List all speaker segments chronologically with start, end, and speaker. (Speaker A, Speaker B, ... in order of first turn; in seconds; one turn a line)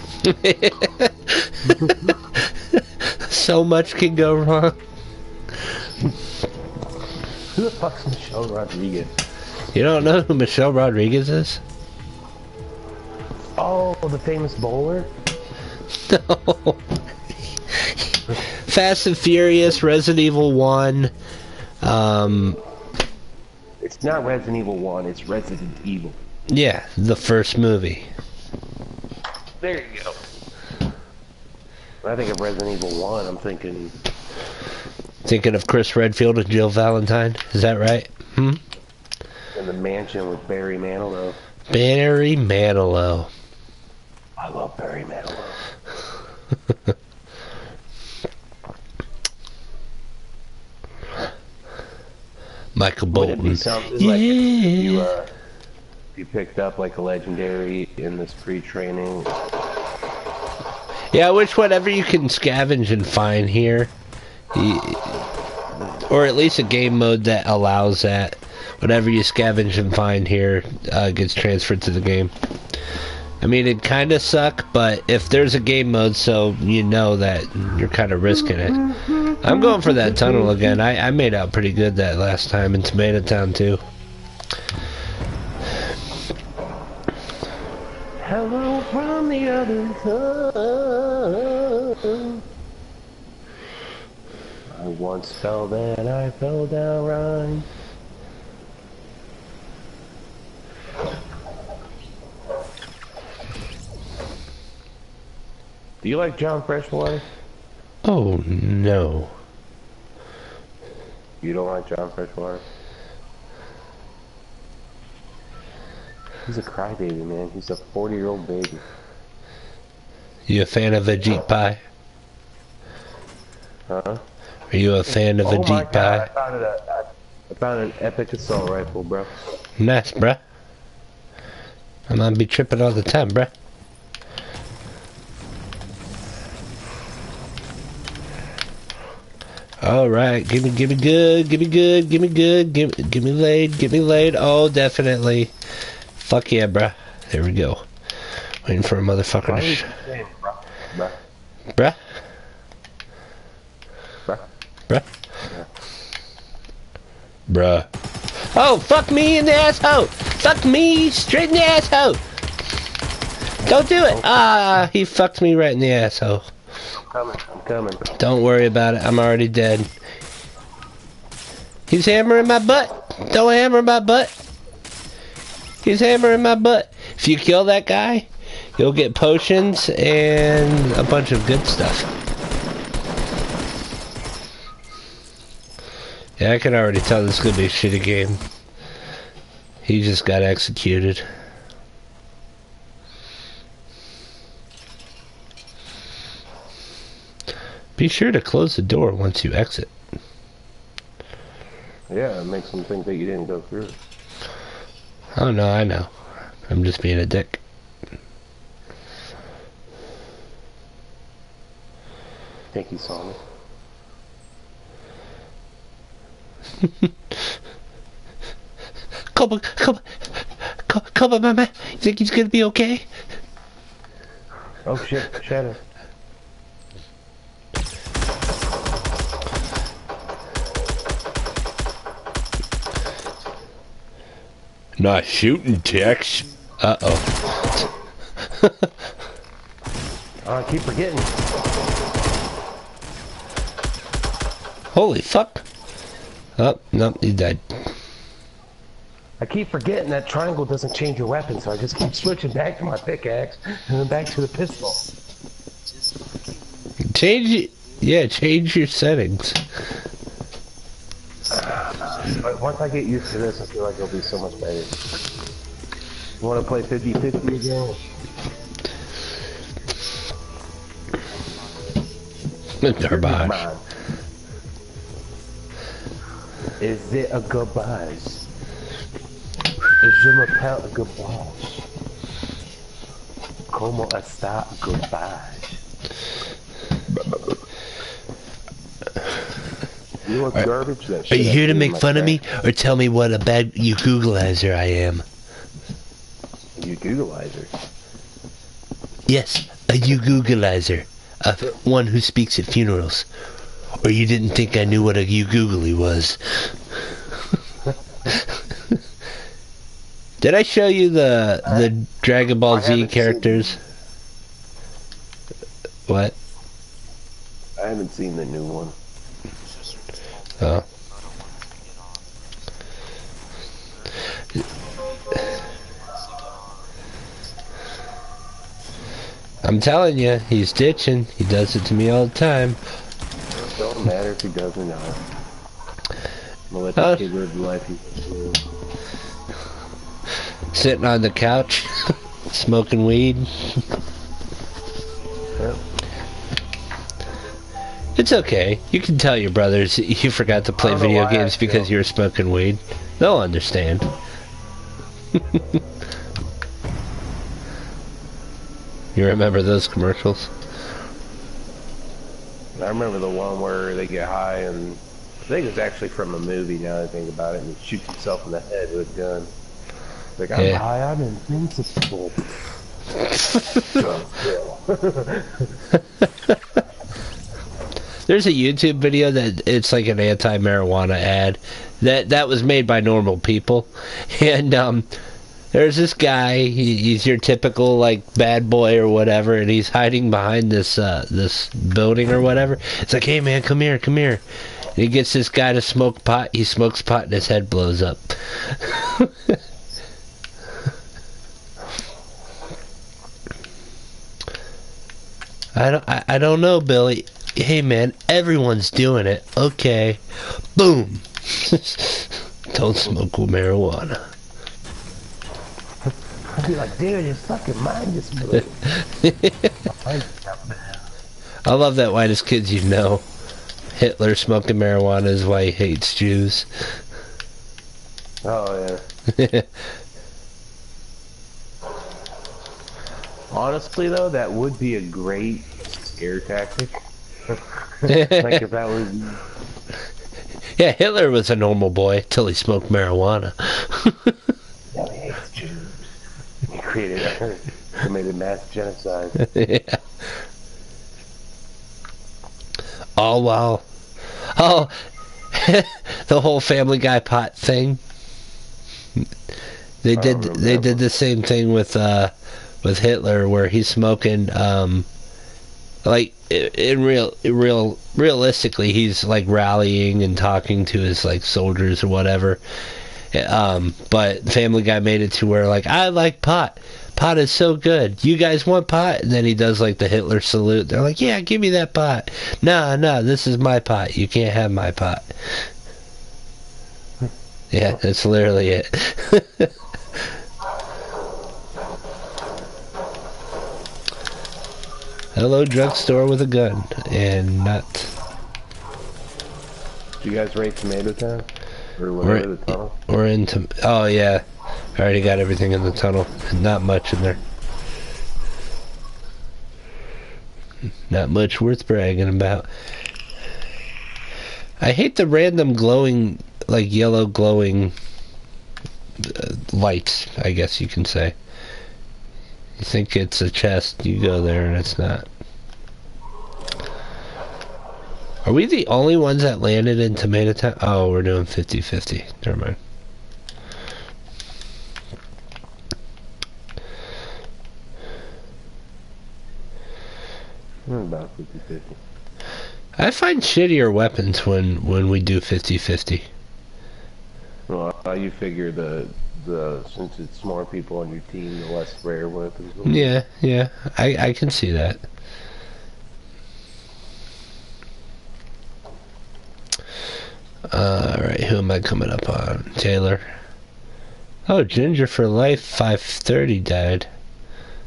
Speaker A: 0.2-4.8
Speaker B: 7.5-9.2
Speaker A: 9.7-11.6
Speaker B: 13.6-15.1
Speaker A: 16.0-16.9
Speaker A: 17.7-21.1
Speaker A: 21.8-22.6
Speaker B: 23.8-26.2
Speaker A: 26.5-28.1
Speaker B: 29.6-30.2
Speaker B: 32.0-34.0
Speaker A: 35.2-38.6
Speaker B: 39.5-41.4
Speaker A: 41.7-43.3
Speaker B: 44.4-45.6
Speaker A: 52.8-55.1
Speaker B: 53.1-55.3
Speaker B: 56.1-59.3
Speaker A: 61.1-63.9
Speaker A: 64.5-65.3
Speaker A: 65.8-72.3
Speaker A: 73.4-78.8
Speaker B: 78.3-80.8
Speaker A: 79.4-83.8
Speaker B: 88.2-92.4
Speaker B: 94.7-97.7
Speaker B: 106.0-107.2
Speaker A: 108.0-109.3
Speaker B: 111.4-112.6
Speaker B: 116.5-118.8
Speaker A: 120.5-121.8
Speaker B: 123.9-124.2
Speaker A: 124.7-126.3
Speaker B: 125.4-129.3
Speaker A: 129.8-130.4
Speaker A: 132.1-133.5
Speaker A: 139.8-145.5
Speaker A: 146.2-147.9
Speaker A: 148.7-149.9
Speaker B: 149.4-151.2
Speaker A: 151.8-152.1
Speaker A: 157.5-157.9
Speaker A: 158.4-162.2
Speaker A: 163.7-166.5
Speaker B: 163.7-164.3
Speaker B: 167.1-168.0
Speaker A: 168.1-169.9
Speaker A: 171.9-174.3
Speaker A: 175.8-182.1
Speaker A: 186.4-188.4
Speaker A: 189.8-191.3
Speaker A: 198.0-199.9
Speaker B: 202.1-204.0
Speaker A: 205.3-206.2
Speaker A: 206.7-207.6
Speaker B: 212.7-213.4
Speaker A: 216.8-217.1
Speaker A: 219.3-223.1
Speaker B: 224.8-225.8
Speaker A: 235.0-237.9
Speaker A: 238.4-238.9
Speaker B: 240.4-241.4
Speaker A: 244.9-245.6
Speaker A: 246.6-247.9
Speaker B: 249.4-255.0
Speaker C: 254.2-258.2
Speaker A: 257.1-259.7
Speaker C: 261.3-262.7
Speaker B: 261.5-265.0
Speaker B: 266.4-268.0
Speaker C: 267.3-268.9
Speaker C: 269.9-272.7
Speaker A: 272.8-273.6
Speaker B: 273.1-273.8
Speaker B: 276.8-278.4
Speaker B: 280.0-281.8
Speaker B: 283.7-285.8
Speaker B: 290.2-292.4
Speaker A: 291.3-295.2
Speaker B: 296.8-297.7
Speaker A: 299.3-303.3
Speaker A: 304.0-307.0
Speaker A: 308.3-309.0
Speaker A: 310.4-313.8
Speaker B: 311.6-311.9
Speaker B: 312.7-313.8
Speaker A: 316.1-316.4
Speaker B: 317.8-318.9
Speaker C: 319.6-322.7
Speaker C: 323.6-328.0
Speaker A: 329.6-332.8
Speaker B: 333.5-335.2
Speaker B: 336.7-338.6
Speaker A: 337.0-337.2
Speaker A: 340.7-343.9
Speaker B: 345.6-345.8
Speaker A: 348.2-354.1
Speaker B: 350.8-351.9
Speaker A: 359.1-360.5
Speaker B: 362.8-369.5
Speaker B: 370.4-372.5
Speaker A: 370.6-370.8
Speaker B: 373.9-375.8
Speaker A: 378.3-385.1
Speaker A: 385.7-394.4
Speaker A: 394.9-399.6
Speaker A: 405.8-414.3
Speaker B: 416.5-418.8
Speaker A: 418.9-419.7
Speaker B: 419.9-421.0
Speaker A: 421.6-423.3
Speaker A: 423.9-427.0
Speaker B: 428.4-429.0
Speaker A: 429.3-429.8
Speaker B: 433.5-436.9
Speaker B: 437.5-439.4
Speaker A: 438.1-438.6
Speaker A: 440.8-444.5
Speaker B: 444.9-446.0
Speaker B: 446.7-449.4
Speaker A: 449.4-450.0
Speaker A: 453.2-453.8
Speaker A: 454.6-458.0
Speaker A: 460.0-465.1
Speaker B: 460.1-461.0
Speaker A: 466.1-472.6
Speaker A: 473.3-485.7
Speaker A: 487.7-490.3
Speaker A: 495.3-498.1
Speaker B: 500.2-503.0
Speaker A: 502.2-504.4
Speaker A: 505.0-507.4
Speaker A: 511.1-512.7
Speaker A: 514.8-518.0
Speaker A: 519.2-521.4
Speaker A: 522.8-525.3
Speaker A: 528.4-532.8
Speaker B: 540.9-542.0
Speaker A: 543.0-546.3
Speaker B: 547.7-553.1
Speaker A: 552.9-555.0
Speaker A: 560.7-563.3
Speaker A: 564.5-567.1